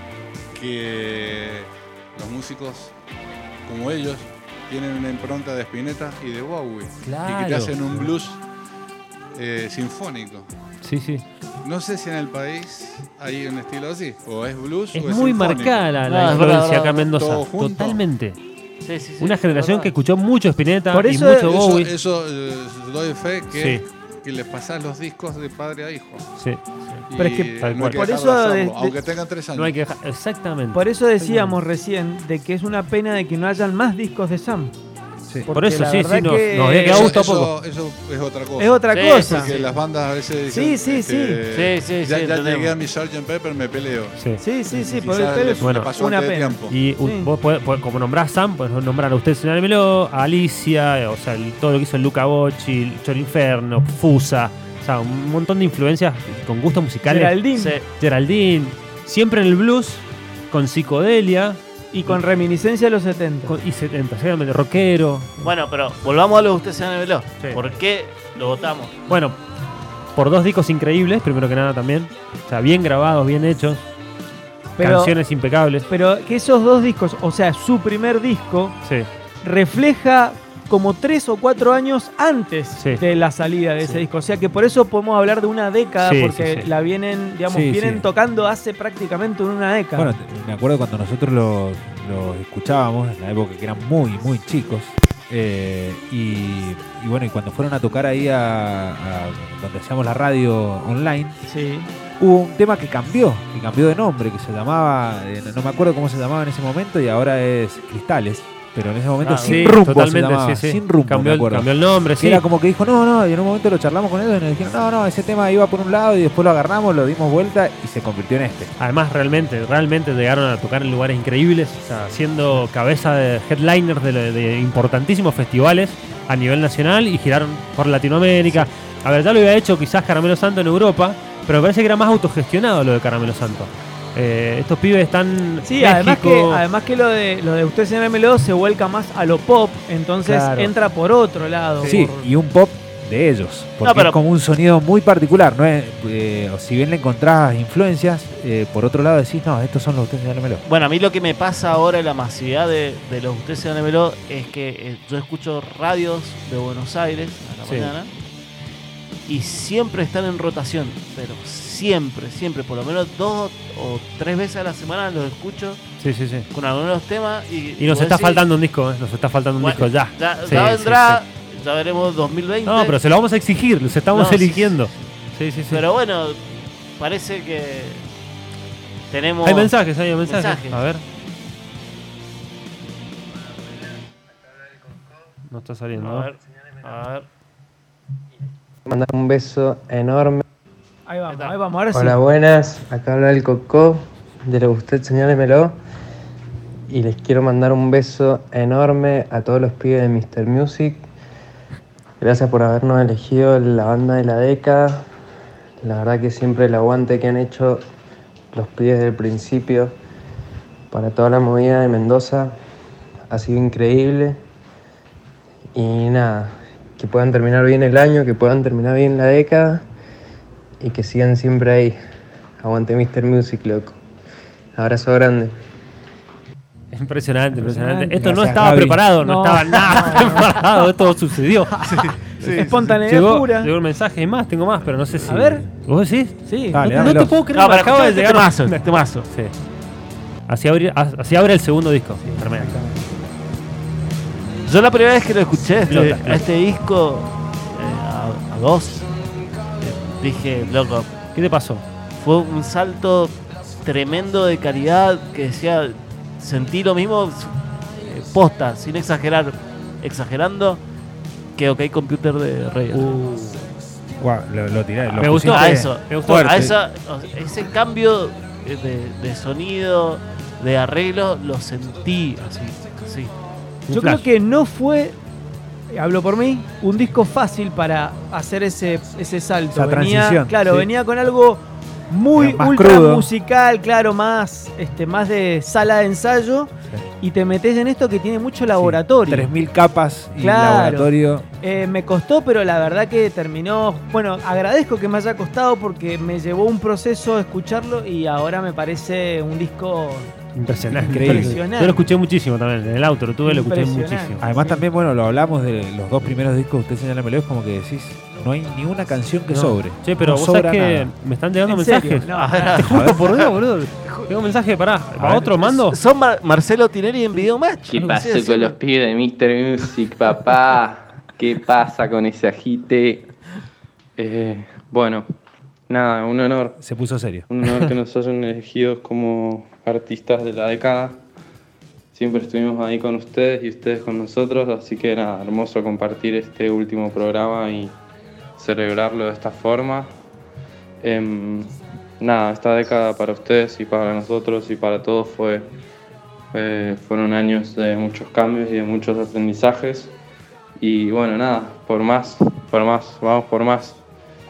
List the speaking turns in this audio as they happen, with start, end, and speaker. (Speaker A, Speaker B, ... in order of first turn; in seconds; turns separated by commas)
Speaker A: 0.5-2.9, Speaker A: 3.6-8.4, Speaker B: 7.0-8.1, Speaker A: 9.3-10.5, Speaker B: 10.8-11.2, Speaker A: 11.6-18.0, Speaker B: 14.9-18.4, Speaker C: 16.1-17.1, Speaker C: 18.8-19.9, Speaker B: 19.2-21.9, Speaker D: 20.9-21.5, Speaker A: 21.4-26.2, Speaker B: 23.6-23.8, Speaker B: 26.4-26.6, Speaker A: 27.1-29.8, Speaker D: 27.1-29.0, Speaker B: 27.6-28.0, Speaker B: 29.6-31.6, Speaker D: 30.7-34.7, Speaker D: 35.5-37.2, Speaker B: 35.5-37.5, Speaker A: 36.8-46.8, Speaker D: 38.6-39.6, Speaker C: 38.9-39.7, Speaker D: 40.5-41.5, Speaker C: 41.5-42.8, Speaker D: 44.4-47.3, Speaker B: 45.6-45.9, Speaker B: 46.7-62.2, Speaker D: 57.1-57.8, Speaker C: 57.5-57.8, Speaker D: 61.9-63.5, Speaker B: 63.5-65.4, Speaker C: 65.4-69.0, Speaker B: 67.4-67.7, Speaker B: 69.1-69.4, Speaker B: 70.2-73.8, Speaker D: 74.8-75.2, Speaker B: 74.8-75.9, Speaker D: 75.9-78.8, Speaker B: 78.8-79.1, Speaker D: 79.4-90.1, Speaker B: 82.8-83.0, Speaker B: 86.0-86.7, Speaker E: 87.5-88.1, Speaker E: 90.0-101.4, Speaker D: 101.5-101.9, Speaker E: 102.2-118.7, Speaker C: 109.2-109.6, Speaker B: 109.4-112.4, Speaker B: 118.8-136.6, Speaker D: 135.7-142.3, Speaker B: 140.2-140.7, Speaker B: 141.8-142.1, Speaker E: 141.8-150.6, Speaker C: 143.8-144.2, Speaker C: 150.7-158.1, Speaker B: 157.7-157.9, Speaker C: 159.3-165.8, Speaker B: 166.0-166.5, Speaker C: 166.5-168.4, Speaker B: 167.8-171.2, Speaker C: 169.6-173.0, Speaker B: 172.7-175.8, Speaker C: 174.1-174.8, Speaker C: 175.7-178.0, Speaker C: 179.1-179.7, Speaker B: 179.4-181.0, Speaker C: 180.2-180.8, Speaker B: 185.5-186.3, Speaker C: 185.9-187.3, Speaker F: 188.9-190.4, Speaker D: 191.1-192.2, Speaker C: 191.3-191.6, Speaker F: 192.0-195.8, Speaker F: 196.9-201.0, Speaker F: 202.2-205.1, Speaker F: 205.8-207.8, Speaker F: 208.5-209.9, Speaker F: 210.9-212.5, Speaker F: 213.3-214.4, Speaker F: 215.8-219.8, Speaker F: 220.8-222.0, Speaker F: 222.6-223.9, Speaker F: 224.8-225.5, Speaker B: 226.9-231.9, Speaker D: 227.6-228.2, Speaker E: 228.2-229.0, Speaker D: 229.2-230.9, Speaker C: 231.9-232.9, Speaker D: 232.4-233.7, Speaker B: 232.9-239.5, Speaker D: 235.3-235.7, Speaker D: 236.5-237.2, Speaker E: 236.7-237.3, Speaker C: 237.5-239.3, Speaker B: 240.5-242.8, Speaker D: 242.2-243.1, Speaker C: 244.7-249.1, Speaker B: 245.9-246.4, Speaker C: 249.8-251.1, Speaker B: 251.3-251.8, Speaker C: 252.2-260.8, Speaker C: 261.6-263.1, Speaker E: 262.9-266.7, Speaker B: 265.1-266.6, Speaker C: 265.4-273.3, Speaker B: 273.9-274.3, Speaker D: 273.9-275.2, Speaker D: 275.9-289.5, Speaker E: 279.7-280.9, Speaker E: 282.4-283.3, Speaker E: 288.8-291.4, Speaker D: 290.4-300.3, Speaker B: 300.6-304.4, Speaker D: 301.0-302.1, Speaker E: 301.0-301.6, Speaker D: 303.4-304.9, Speaker E: 304.4-311.1, Speaker B: 309.5-316.0, Speaker D: 311.6-312.8, Speaker C: 312.3-313.5, Speaker E: 312.9-313.2, Speaker E: 315.2-315.6, Speaker C: 315.7-318.8, Speaker G: 317.9-323.3, Speaker G: 324.2-325.3, Speaker G: 325.9-326.8, Speaker E: 326.8-327.5, Speaker G: 327.5-331.2, Speaker G: 332.1-337.9, Speaker G: 338.6-340.1, Speaker G: 341.0-345.7, Speaker G: 346.5-350.1, Speaker G: 350.8-354.0